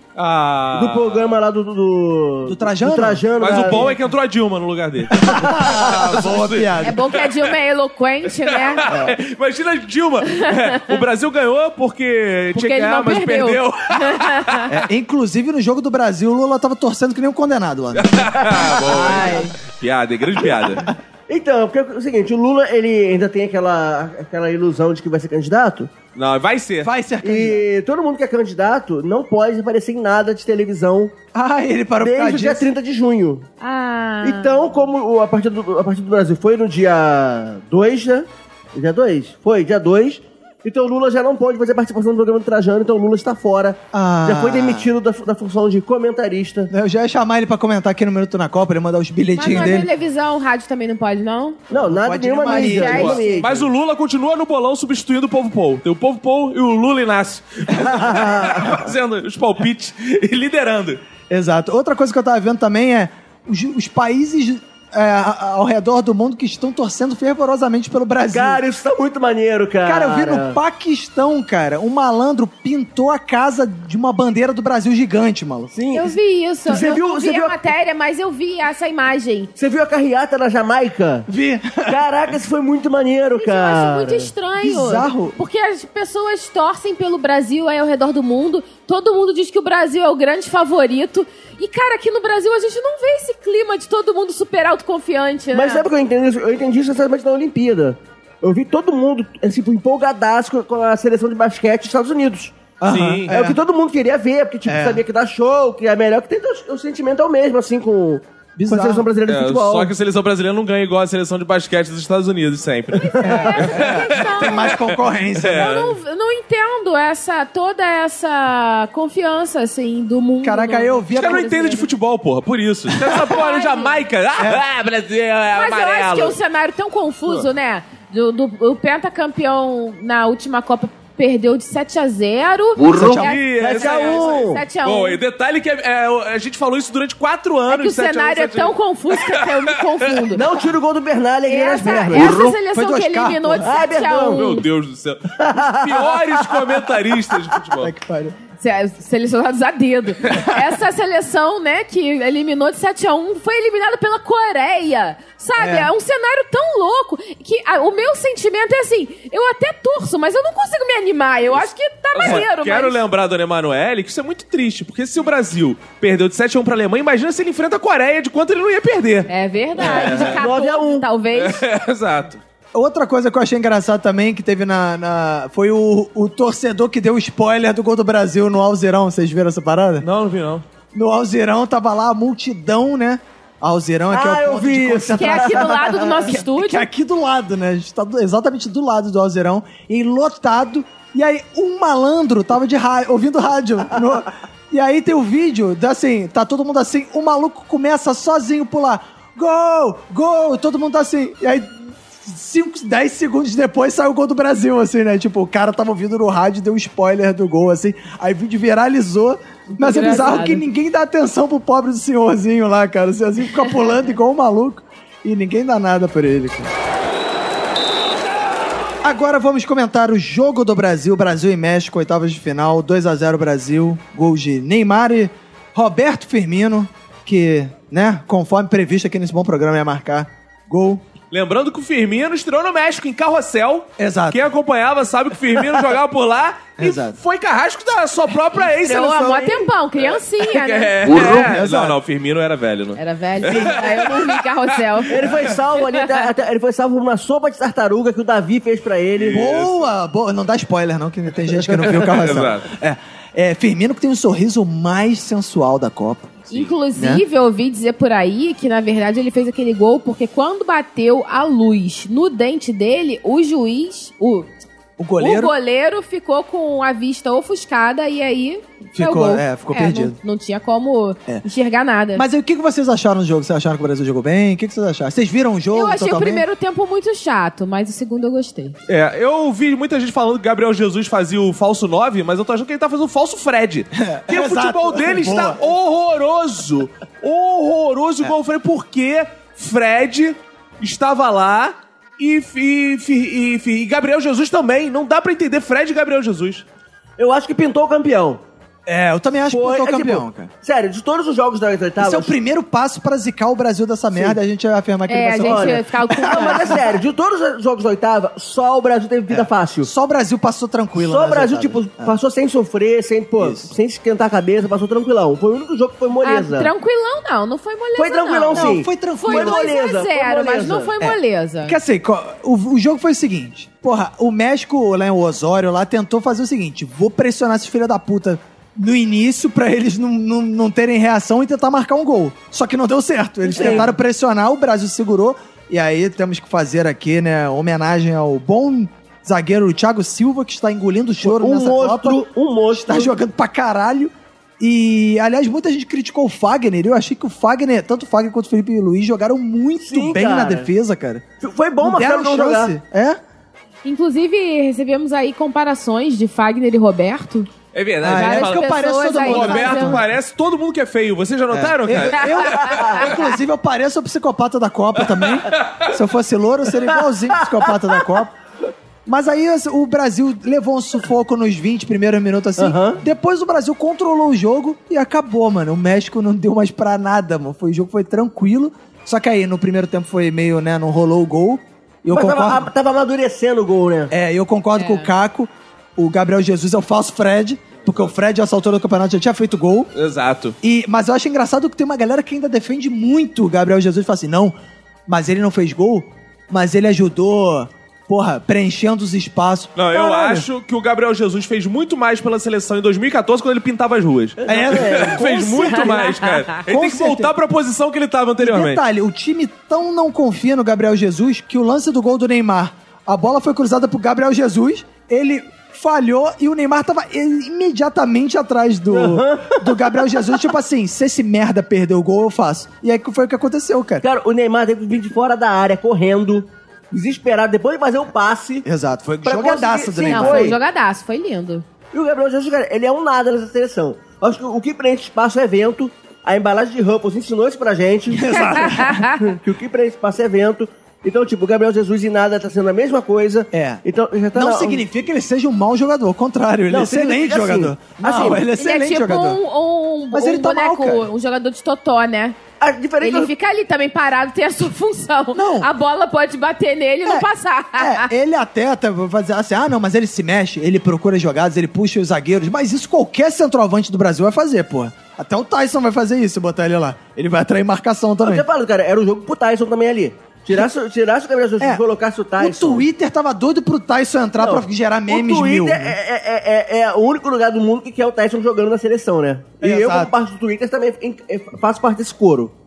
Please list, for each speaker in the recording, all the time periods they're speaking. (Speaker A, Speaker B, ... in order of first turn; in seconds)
Speaker A: 0.2-1.4, 3.4-7.5, 8.4-14.7, 17.9-20.9, 26.1-26.9, 52.7-61.0, 102.9-103.3, 109.2-116.0, 121.1-126.4, 133.0-140.2, 144.3-147.9, 162.2-170.4, 171.3-172.4, 180.0-180.6, 231.3-245.5, 249.2-249.9, 251.8-252.7, 278.9-296.6, 357.7-362.9, 365.1-365.9, 389.9-390.6, 399.8-408.8
Speaker B: 0.7-4.0, 18.6-19.2, 21.3-25.9, 27.2-31.1, 32.0-33.5, 34.2-46.7, 51.7-53.7, 57.8-58.9, 68.3-70.6, 75.7-76.1, 76.7-77.6, 79.6-81.3, 81.9-84.3, 95.5-102.6, 103.3-109.9, 113.2-113.5, 133.6-134.6, 140.3-142.4, 143.6-144.5, 145.4-146.9, 169.8-171.1, 184.1-186.3, 245.1-249.4, 297.2-298.4, 299.5-302.3, 304.1-304.4, 305.4-309.9, 310.9-316.7, 318.0-320.9, 333.5-333.9, 341.2-343.1, 349.8-350.7, 351.4-352.8, 362.7-363.1, 372.6-373.0, 382.1-384.1, 404.4-405.2, 418.9-419.9, 424.0-428.7, 429.2-430.6, 431.9-438.4, 439.2-444.9, 446.7-448.4, 452.6-453.3, 468.2-472.9, 474.4-482.5
Speaker C: 2.5-3.8, 5.1-7.0, 14.7-19.4, 26.8-27.6, 31.3-32.7, 43.9-44.9, 46.7-49.9, 51.7-53.2, 61.3-68.6, 69.8-75.7, 81.3-82.0, 84.6-85.4, 102.8-103.6, 104.7-105.0, 108.6-109.1, 113.2-115.8, 120.4-121.5, 124.4-124.6, 132.8-133.3, 142.7-143.7, 147.8-148.4, 155.6-155.9, 172.8-180.1, 180.9-216.7, 219.0-231.0, 234.0-234.4, 236.8-237.2, 241.2-242.0, 243.5-243.9, 249.3-256.4, 257.0-257.2, 265.0-265.5, 268.9-270.2, 272.1-276.5, 283.9-285.6, 298.9-300.5, 302.0-307.0, 309.3-312.1, 313.4-313.7, 318.5-319.7, 321.0-342.2, 342.7-351.2, 351.8-353.2, 358.0-360.1, 361.5-368.4, 369.1-382.7, 384.1-389.9, 390.6-394.5, 395.1-400.5, 404.5-405.9, 406.7-407.3, 408.4-424.1, 428.6-430.6, 438.1-439.1, 443.5-443.8, 444.3-449.4, 450.1-451.1, 455.4-455.7, 457.1-468.5, 472.4-476.0, 479.6-480.1
Speaker D: 6.8-8.9, 10.3-10.9, 12.5-14.7, 18.9-19.6, 33.6-34.8, 49.4-51.6, 52.4-53.5, 75.9-79.5, 83.4-95.9, 113.0-114.9, 115.5-121.9, 123.1-124.0, 125.5-135.2, 137.7-140.5, 141.5-144.7, 148.6-163.0, 169.3-171.6, 185.1-186.9, 209.7-210.6, 238.5-241.2, 243.0-246.2, 256.5-264.5, 265.2-272.2, 275.7-278.8, 305.1-306.8, 316.2-321.8, 333.5-333.9, 353.8-357.5, 358.1-360.0, 362.2-363.1, 384.8-385.1, 405.6-406.4, 430.1-431.6, 438.3-439.2, 448.6-452.4, 453.0-458.1